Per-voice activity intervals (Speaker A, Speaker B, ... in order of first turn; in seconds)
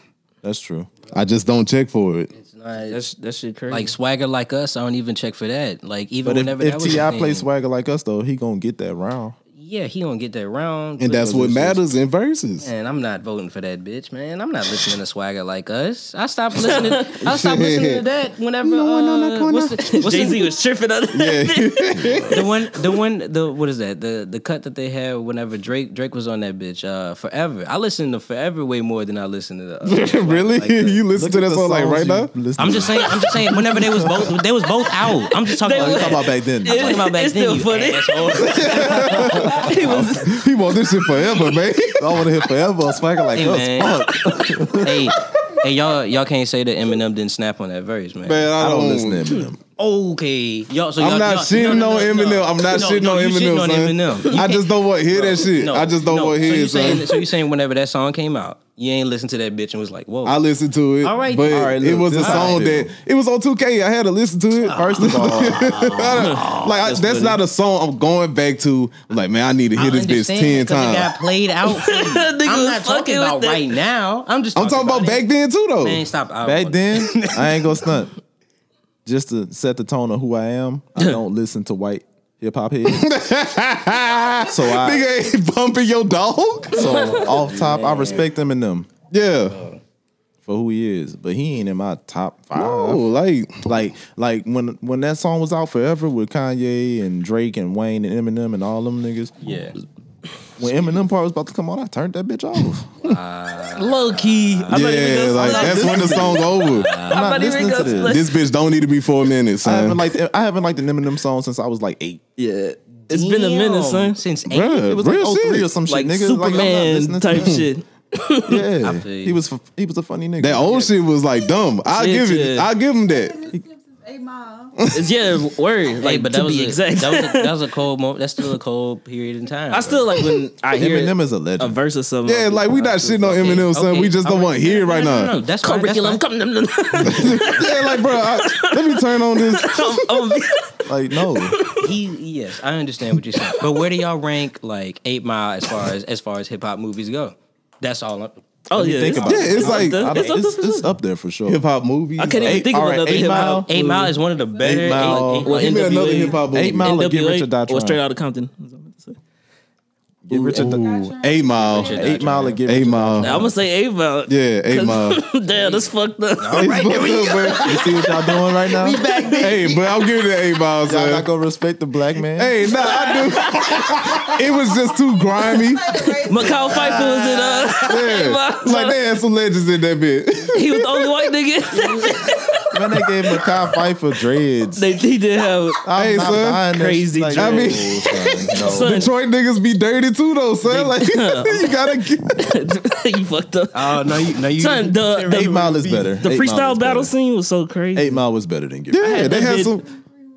Speaker A: 0.4-0.9, 6.2-9.4, 21.9-22.4, 31.1-34.4, 35.7-37.0, 38.4-40.3, 42.0-45.1, 48.6-49.6, 61.5-62.9, 64.7-66.2, 76.4-78.1, 79.0-83.1, 84.5-85.0, 86.7-88.9, 90.4-93.1, 93.6-99.3, 100.6-102.9, 105.4-106.4, 107.1-108.2, 109.6-112.2, 114.8-117.7, 118.5-120.9, 130.7-131.8, 140.8-141.6, 148.7-151.6, 152.4-153.7, 154.6-155.5, 156.5-158.0, 160.3-160.9, 161.8-163.5, 167.6-169.0, 170.8-172.6, 182.7-184.8, 185.8-189.0, 195.3-197.1, 197.9-199.3
Speaker B: 1.1-2.3, 11.0-12.7, 17.2-18.0, 18.6-20.4, 21.1-22.5, 29.9-32.3, 38.5-42.2, 48.2-49.3, 51.0-57.2, 60.2-71.1, 74.5-76.0, 82.8-87.0, 89.1-89.6, 92.5-93.7, 104.7-106.9, 108.0-110.0, 114.5-115.7, 117.3-117.6, 120.4-123.5, 124.8-125.0, 132.2-135.4, 137.0-140.2, 149.2-150.1, 151.5-152.6, 155.5-156.9, 160.5-163.5, 164.3-165.2, 166.6-167.8, 169.4-171.2, 172.3-175.9, 177.9-181.1, 185.9-186.6, 187.3-188.1, 188.8-192.6, 198.9-199.8
Speaker C: 2.3-3.0, 3.7-7.5, 9.5-11.9, 12.6-20.4, 22.3-31.0, 32.6-39.7, 43.3-44.1, 44.7-48.5, 49.8-60.4, 61.0-62.6, 64.6-66.2, 69.8-75.2, 75.8-77.8, 86.8-88.3, 89.5-89.8, 99.4-99.8, 103.0-104.8, 106.5-108.0, 113.1-114.9, 118.8-119.4, 126.0-130.1, 133.3-136.2, 141.8-148.4, 149.1-150.2, 153.2-156.3, 161.7-162.6, 166.4-169.9, 176.3-178.0, 193.7-196.2
Speaker D: 2.8-3.9, 16.6-17.1, 19.9-22.3, 35.4-40.4, 66.2-67.4, 71.7-73.7, 103.8-106.4, 106.9-108.4, 112.4-114.2, 115.9-118.7, 121.9-122.7, 124.9-127.5, 129.7-133.6, 134.9-141.9, 143.4-143.6, 148.7-150.9, 152.2-154.2, 154.8-159.2, 160.3-160.6, 163.2-166.8, 172.8-173.7, 176.3-179.0, 180.5-182.3, 184.8-185.8, 186.7-189.1, 190.6-195.4, 196.2-198.2, 199.0-199.8
Speaker E: 123.0-124.8, 160.6-162.6, 172.8-177.2, 181.9-182.4